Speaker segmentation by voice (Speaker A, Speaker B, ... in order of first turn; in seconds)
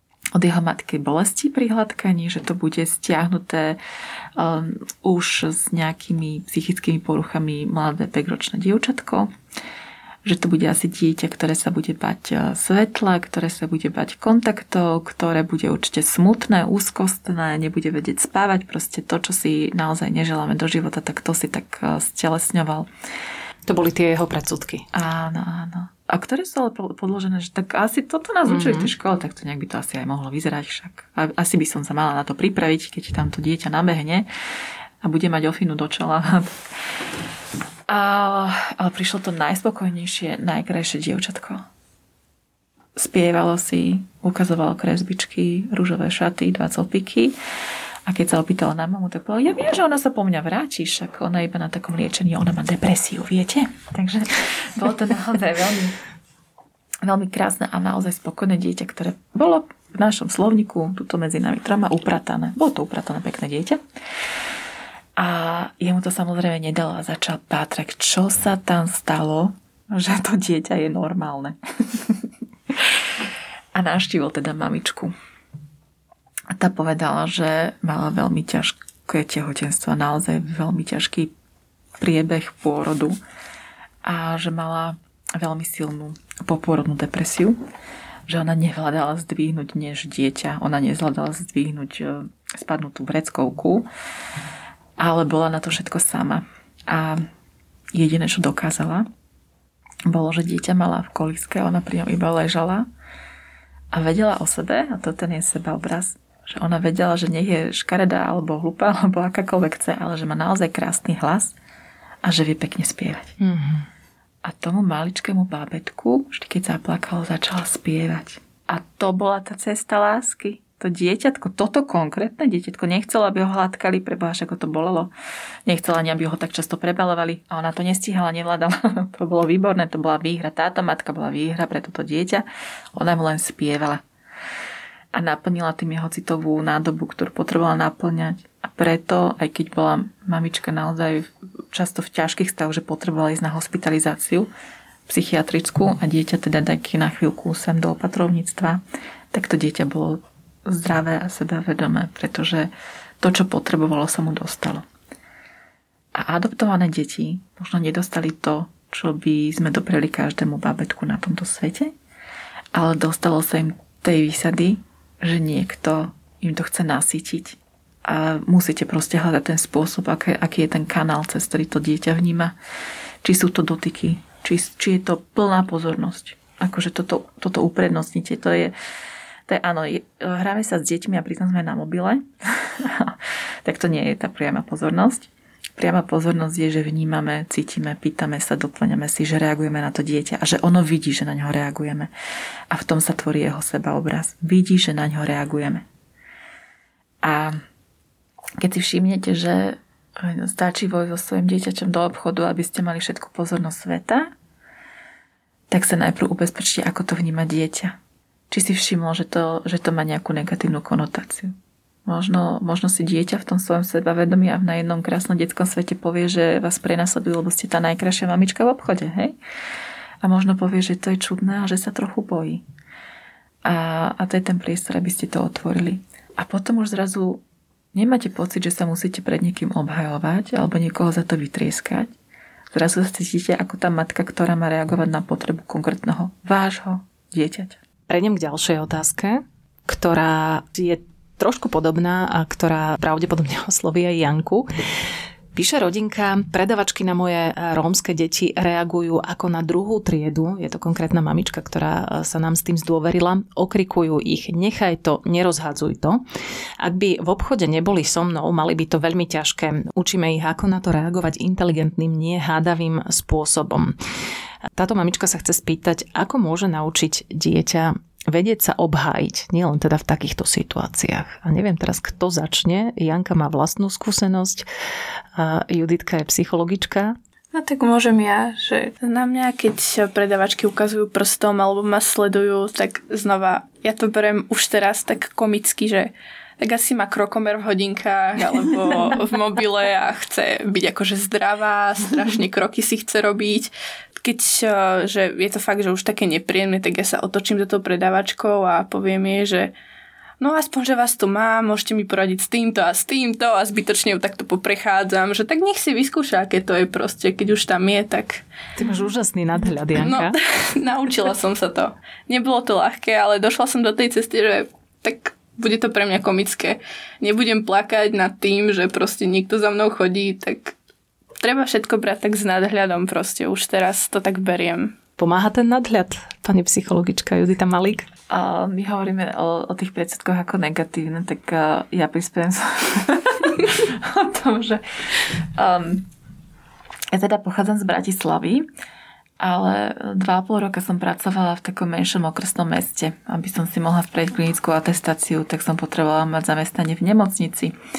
Speaker A: 0.3-3.8, 4.3-9.3, 10.2-22.9, 24.9-34.3, 35.0-36.6, 37.9-41.6, 43.0-47.3, 48.1-56.0, 57.0-63.8, 65.2-75.1, 76.5-81.3, 82.0-83.2, 84.0-87.6, 88.3-93.9, 95.0-97.3, 97.9-99.1, 100.0-102.9, 103.9-111.5, 112.2-113.3, 114.4-125.1, 125.7-134.0, 135.1-144.5, 145.1-148.8, 149.3-154.8, 156.2-161.9, 162.7-172.5, 173.2-178.7, 179.5-192.1, 192.7-195.8, 197.2-197.6, 198.6-204.3, 205.7-207.9, 208.5-211.5, 212.0-219.3, 220.2-222.6, 223.6-227.4, 227.9-232.1, 232.7-237.8, 328.3-336.1, 337.1-338.6, 339.4-347.8
Speaker B: 23.7-24.8, 28.4-28.9, 113.4-113.8, 238.1-244.7, 245.5-256.2, 256.8-263.9, 264.8-274.6, 275.4-277.1, 308.8-310.4, 325.2-328.1
Speaker C: 277.5-299.7, 300.4-308.4, 309.9-320.7, 321.4-324.9